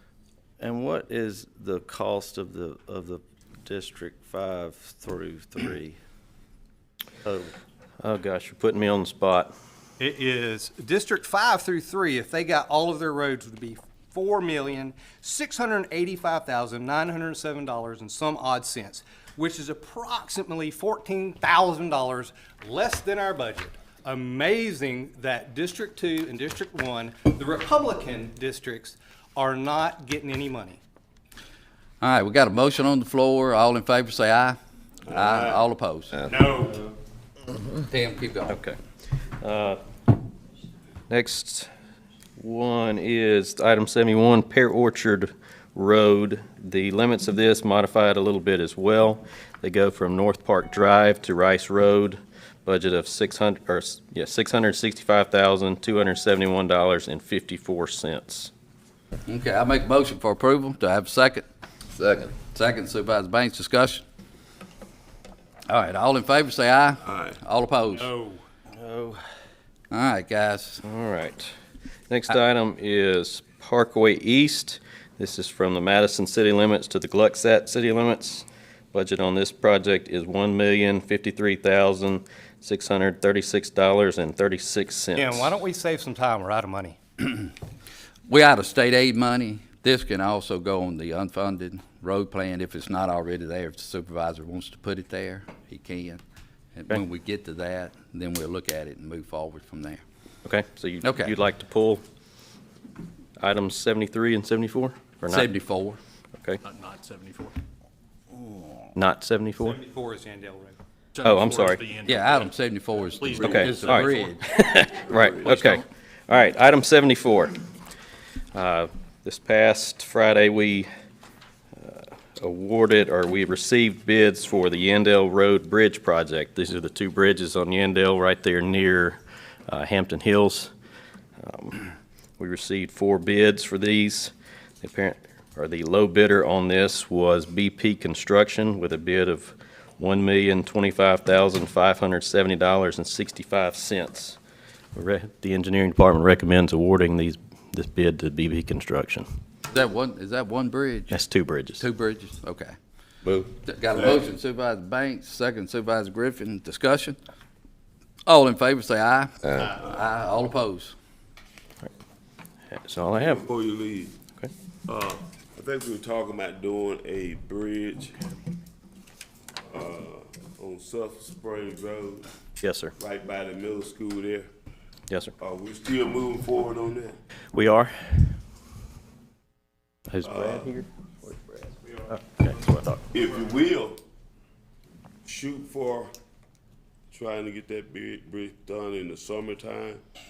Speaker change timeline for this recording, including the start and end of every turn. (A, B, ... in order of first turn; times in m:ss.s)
0:00.6-0:06.0 A
0:07.2-0:07.5 A
0:08.0-0:09.5 B
0:10.0-0:30.8 C
0:32.0-0:34.6 D
0:35.1-0:35.6 E
0:35.1-0:36.2 D
0:36.3-0:36.8 C
0:37.9-0:38.6 D
0:38.5-0:38.8 B
0:39.4-0:39.8 B
0:41.1-0:41.7 B
0:42.4-0:58.5 B
0:59.3-1:04.0 D
1:05.7-1:08.1 D
1:07.1-1:07.4 E
1:08.0-1:08.4 C
1:08.8-1:09.2 A
1:09.9-1:10.8 D
1:10.8-1:11.5 B
1:12.1-1:25.5 B
1:25.1-1:27.0 C
1:28.3-1:36.2 D
1:36.7-1:40.0 D
1:40.4-1:42.0 B
1:41.0-1:41.3 D
1:43.4-1:45.5 B
1:45.3-1:46.0 D
1:46.6-1:47.6 F
1:48.9-1:49.8 B
1:49.6-1:50.8 C
1:51.1-1:52.5 F
1:51.2-1:51.9 B
1:52.0-1:54.4 D
1:53.2-1:53.8 F
1:53.4-1:57.5 B
1:58.5-2:00.9 B
2:01.8-2:10.7 B
2:11.4-2:24.4 B
2:24.9-2:29.2 B
2:29.7-2:31.2 D
2:31.1-2:31.8 B
2:31.8-2:32.7 D
2:33.5-2:37.2 D
2:38.3-2:40.9 D
2:42.7-2:43.4 B
2:43.2-2:44.1 E
2:44.8-2:48.3 E
2:49.7-2:52.3 E
2:52.6-2:52.9 B
2:53.0-2:54.5 E
2:55.4-2:57.2 E
2:57.5-2:58.3 B
3:00.1-3:03.2 B
3:00.2-3:00.7 E
3:03.1-3:04.0 E
3:05.2-3:06.1 E
3:07.1-3:10.0 E